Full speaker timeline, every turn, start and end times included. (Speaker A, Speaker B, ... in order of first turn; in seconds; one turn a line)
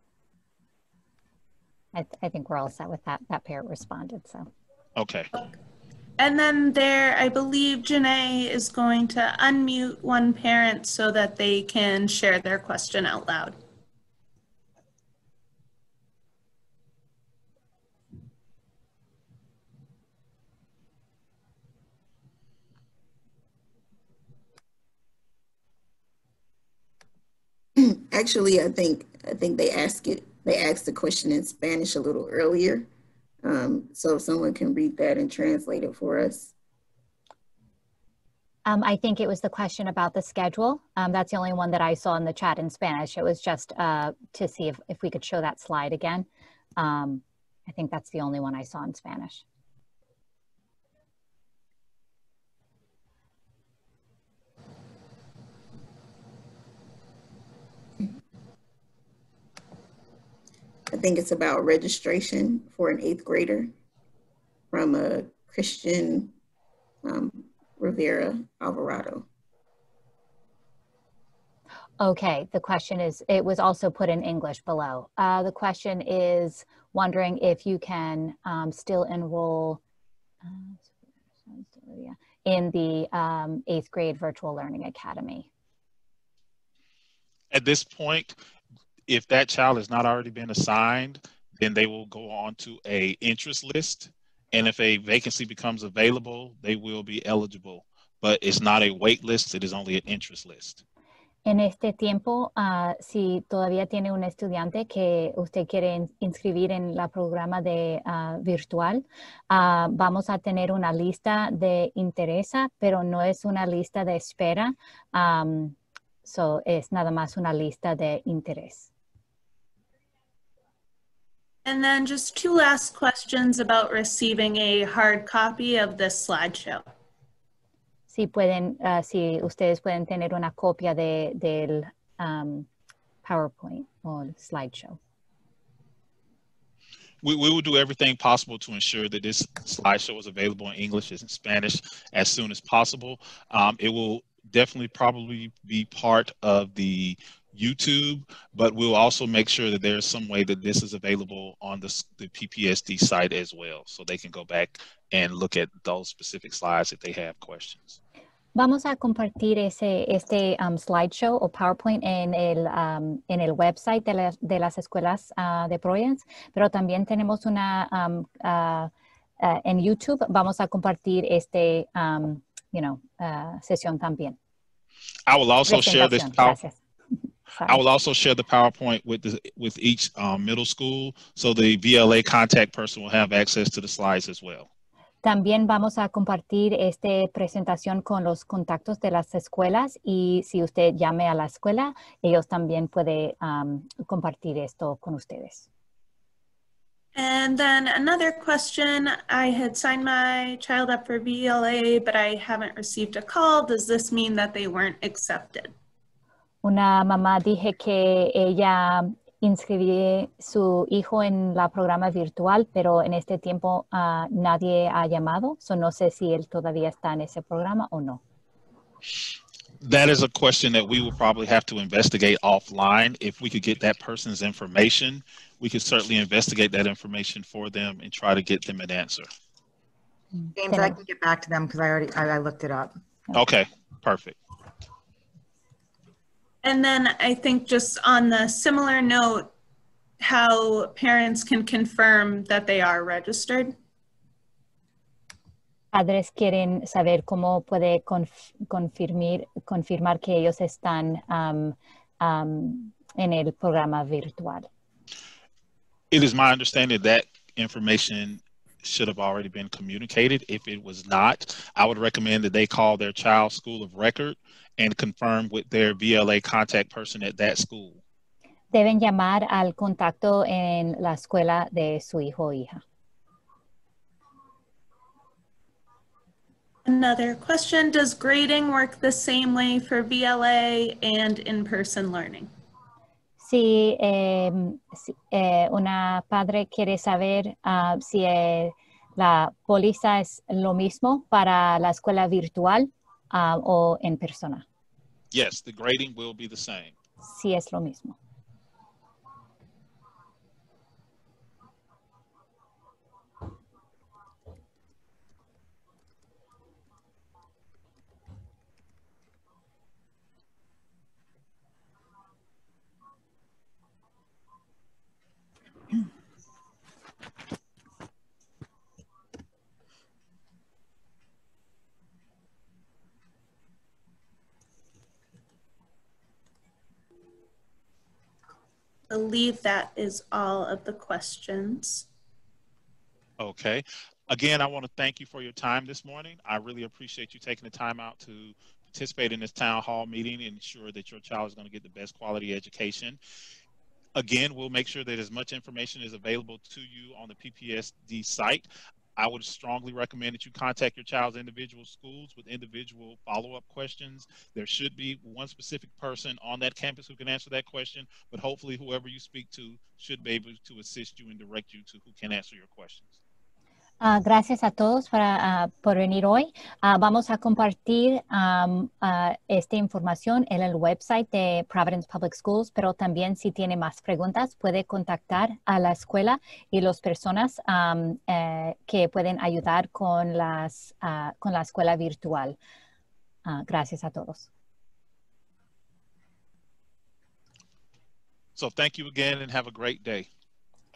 Speaker A: 1.9-4.5
Speaker B: 5.0-5.3
Speaker C: 6.2-13.6
Speaker D: 27.8-32.9
Speaker D: 33.4-36.5
Speaker A: 38.6-46.2
Speaker A: 46.8-49.4
Speaker D: 60.9-63.7
Speaker D: 64.7-66.3
Speaker D: 67.0-69.2
Speaker A: 72.0-79.8
Speaker A: 80.4-80.9
Speaker A: 81.5-85.5
Speaker B: 87.5-88.4
Speaker B: 89.1-100.8
Speaker A: 101.4-118.9
Speaker C: 121.6-126.8
Speaker A: 128.1-132.7
Speaker A: 133.2-135.0
Speaker B: 137.2-158.0
Speaker A: 158.5-174.4
Speaker B: 175.3-176.6
Speaker A: 175.7-176.8
Speaker B: 177.7-184.7
Speaker A: 185.2-195.7
Speaker C: 197.1-205.7
Speaker A: 206.6-218.2
Speaker B: 219.8-229.3
Speaker A: 230.4-231.0
Speaker E: 230.6-232.9
Speaker B: 233.3-234.4
Speaker C: 236.6-239.5
Speaker C: 240.2-243.7
Speaker A: 245.9-254.7
Speaker B: 256.1-268.0
Speaker A: 268.7-272.8
Speaker C: 276.9-282.5
Speaker A: 283.4-294.6
Speaker B: 295.3-296.9
Speaker A: 297.2-298.1
Speaker C: 329.1-332.1
Speaker B: 333.4-343.2
Speaker B: 344.1-363.2
Speaker A: 364.0-382.6
Speaker A: 383.4-384.5
Speaker B: 388.6-390.3